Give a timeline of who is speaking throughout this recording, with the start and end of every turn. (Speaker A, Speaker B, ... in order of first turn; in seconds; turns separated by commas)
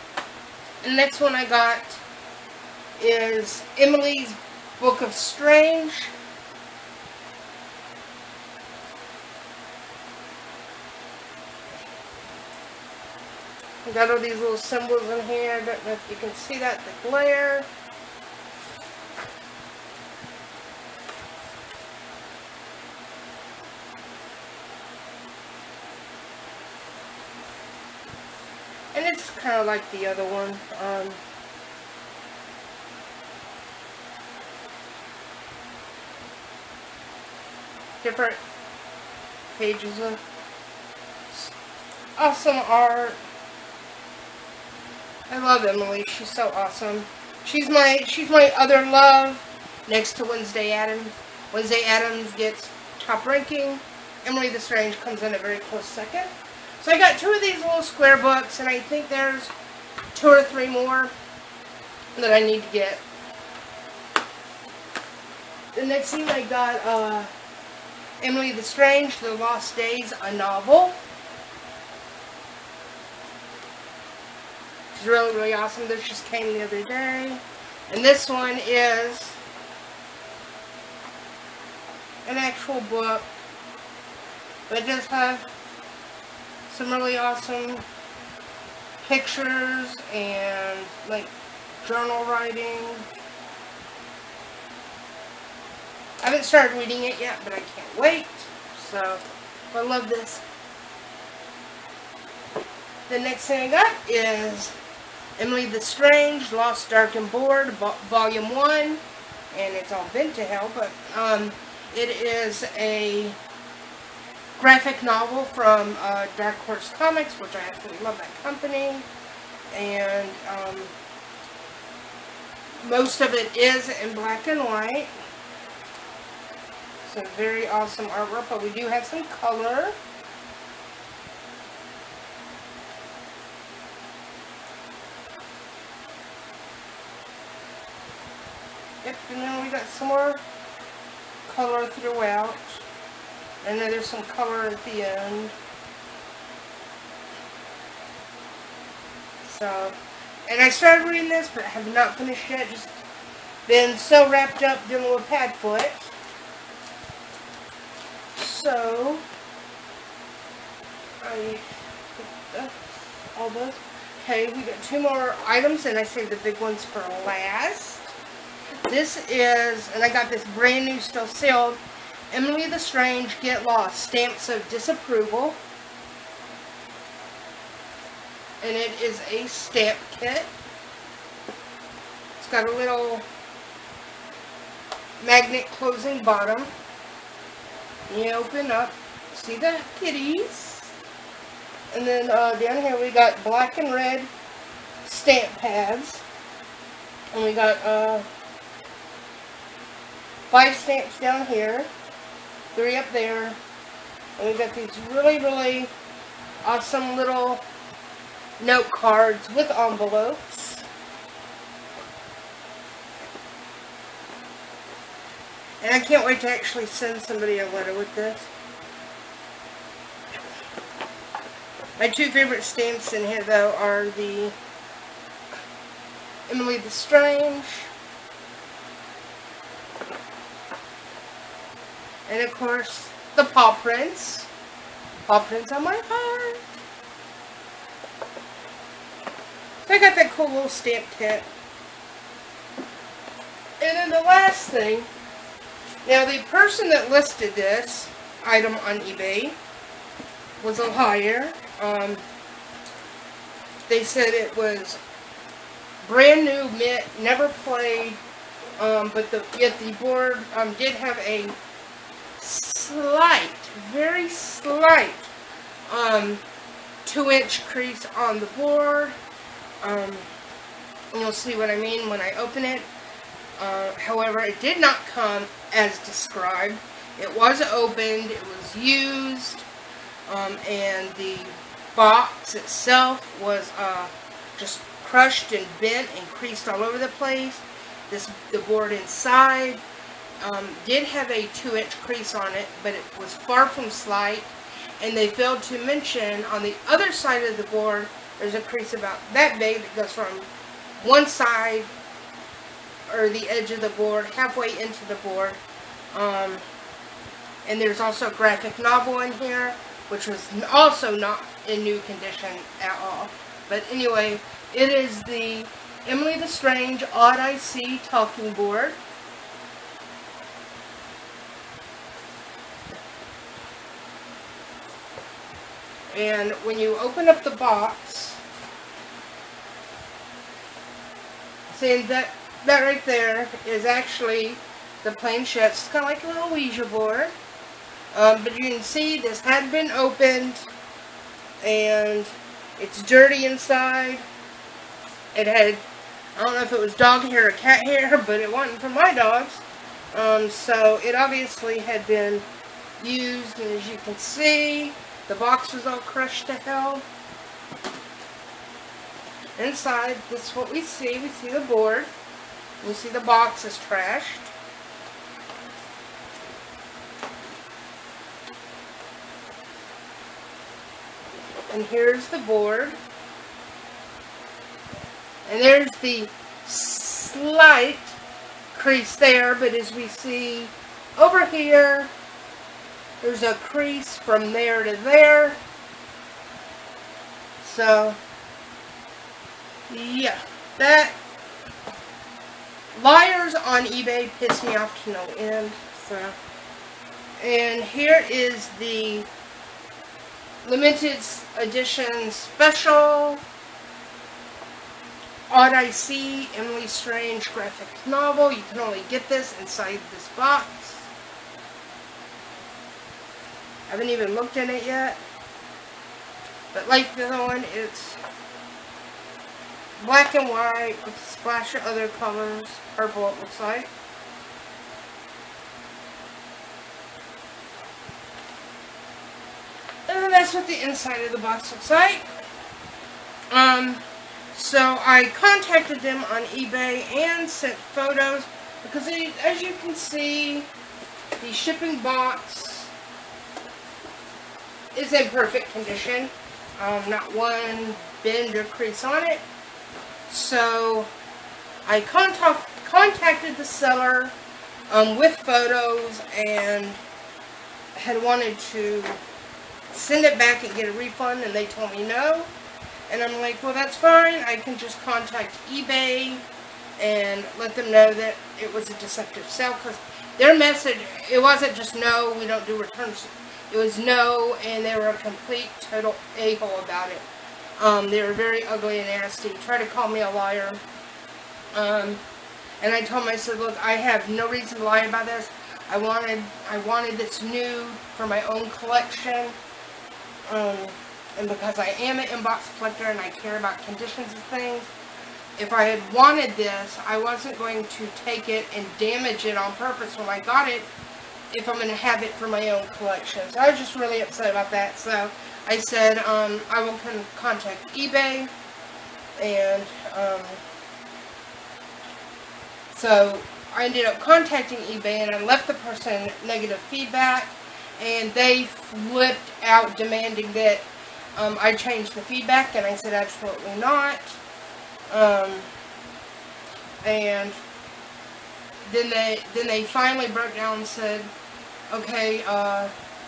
Speaker A: 0.8-2.0, Speaker A: 3.0-6.1, Speaker A: 13.8-17.7, Speaker A: 28.9-31.2, Speaker A: 38.0-38.4, Speaker A: 39.5-40.2, Speaker A: 42.2-43.2, Speaker A: 45.3-59.5, Speaker A: 60.1-61.1, Speaker A: 62.1-63.0, Speaker A: 65.7-67.3, Speaker A: 68.2-71.0, Speaker A: 74.9-79.4, Speaker A: 82.2-83.3, Speaker A: 84.7-85.4, Speaker A: 86.7-87.8, Speaker A: 89.0-91.3, Speaker A: 91.8-93.1, Speaker A: 96.2-100.4, Speaker A: 103.1-104.7, Speaker A: 105.4-109.0, Speaker A: 109.5-113.4, Speaker A: 114.6-119.0, Speaker A: 119.7-120.9, Speaker A: 122.8-125.1, Speaker A: 127.0-129.9, Speaker A: 139.0-140.4, Speaker A: 141.5-142.8, Speaker A: 143.6-145.5, Speaker A: 149.4-153.0, Speaker A: 153.7-156.1, Speaker A: 158.3-159.2, Speaker A: 161.2-161.6, Speaker A: 162.2-168.1, Speaker A: 168.8-171.8, Speaker A: 172.3-175.6, Speaker A: 178.6-180.5, Speaker A: 182.4-183.2, Speaker A: 185.2-186.7, Speaker A: 188.1-190.9, Speaker A: 191.9-194.3, Speaker A: 195.0-196.2, Speaker A: 197.3-198.2, Speaker A: 200.5-201.9, Speaker A: 202.7-203.6, Speaker A: 204.4-205.9, Speaker A: 206.6-207.6, Speaker A: 208.6-210.8, Speaker A: 215.8-218.5, Speaker A: 222.0-224.5, Speaker A: 226.5-227.9, Speaker A: 232.3-234.5, Speaker A: 235.3-236.7, Speaker A: 239.8-241.5, Speaker A: 243.8-245.1, Speaker A: 246.0-249.6, Speaker A: 250.6-252.2, Speaker A: 253.9-255.0, Speaker A: 256.0-258.2, Speaker A: 258.8-261.6, Speaker A: 262.4-265.3, Speaker A: 265.9-266.4, Speaker A: 267.0-269.1, Speaker A: 269.8-270.3, Speaker A: 271.1-272.9, Speaker A: 273.6-279.6, Speaker A: 280.3-289.8, Speaker A: 290.4-301.9, Speaker A: 303.1-305.6, Speaker A: 306.1-306.6, Speaker A: 307.6-319.0, Speaker A: 326.1-328.4, Speaker A: 331.7-337.3, Speaker A: 338.1-340.6, Speaker A: 341.6-344.2, Speaker A: 345.3-345.8, Speaker A: 346.3-352.4, Speaker A: 353.0-357.0, Speaker A: 359.6-362.1, Speaker A: 362.8-364.5, Speaker A: 371.7-373.0, Speaker A: 375.4-378.2, Speaker A: 378.7-382.1, Speaker A: 383.2-385.6, Speaker A: 387.6-388.2, Speaker A: 389.9-391.2, Speaker A: 392.9-396.4, Speaker A: 397.4-399.3, Speaker A: 400.6-403.4, Speaker A: 405.5-411.1, Speaker A: 413.9-415.2, Speaker A: 416.7-418.2, Speaker A: 420.0-423.9, Speaker A: 430.1-432.3, Speaker A: 433.5-440.7, Speaker A: 441.4-442.9, Speaker A: 444.9-449.4, Speaker A: 450.3-451.1, Speaker A: 451.9-454.3, Speaker A: 454.9-457.0, Speaker A: 457.9-459.2, Speaker A: 459.9-462.5, Speaker A: 463.1-466.4, Speaker A: 467.0-477.2, Speaker A: 477.8-480.8, Speaker A: 481.7-482.2, Speaker A: 482.8-489.6, Speaker A: 490.5-494.9, Speaker A: 495.6-500.9, Speaker A: 501.5-508.5, Speaker A: 509.4-510.6, Speaker A: 512.9-524.4, Speaker A: 525.1-525.7, Speaker A: 527.0-527.6, Speaker A: 528.8-531.3, Speaker A: 531.9-532.9